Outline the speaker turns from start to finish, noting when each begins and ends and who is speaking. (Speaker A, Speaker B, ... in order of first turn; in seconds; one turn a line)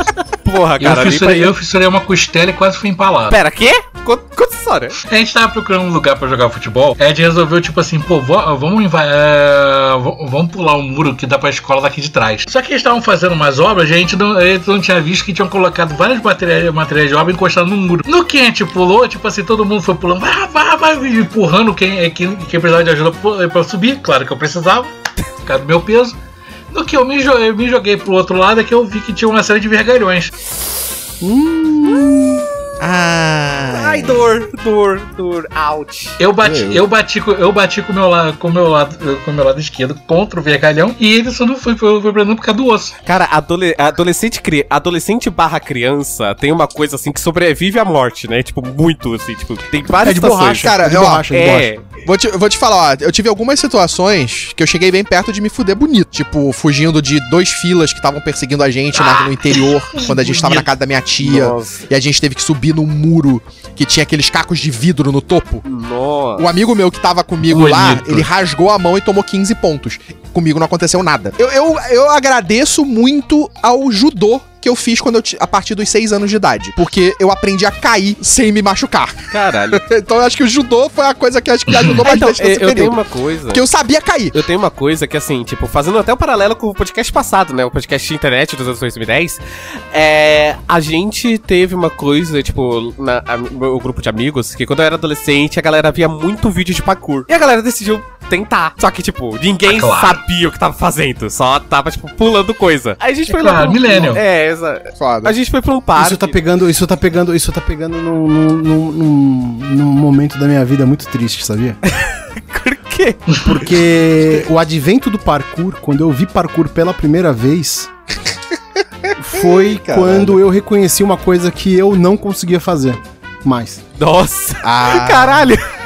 Speaker A: 0.4-1.5
Speaker B: 0.8-3.4
Speaker A: 3.3-5.0
Speaker B: 5.1-24.9
Speaker B: 25.4-26.2
Speaker B: 26.7-30.3
Speaker C: 31.2-32.5
Speaker A: 31.9-32.3
Speaker D: 32.8-34.2
Speaker A: 33.7-36.2
Speaker B: 36.2-42.9
Speaker D: 36.4-36.8
Speaker A: 43.0-50.7
Speaker C: 50.0-51.7
Speaker D: 50.6-51.3
Speaker A: 51.3-51.9
Speaker D: 52.0-65.6
Speaker B: 58.9-60.7
Speaker A: 61.2-61.9
Speaker A: 65.6-66.6
Speaker D: 66.4-79.2
Speaker B: 67.5-68.3
Speaker A: 79.3-79.8
Speaker D: 79.7-84.4
Speaker B: 81.7-82.0
Speaker A: 82.0-83.6
Speaker A: 84.3-89.4
Speaker A: 89.9-106.4
Speaker B: 99.7-100.2
Speaker B: 103.3-104.2
Speaker D: 105.0-105.3
Speaker C: 105.9-111.8
Speaker A: 111.9-113.4
Speaker C: 113.4-117.9
Speaker D: 119.0-120.4
Speaker C: 119.2-123.8
Speaker A: 124.0-125.6
Speaker D: 124.6-125.5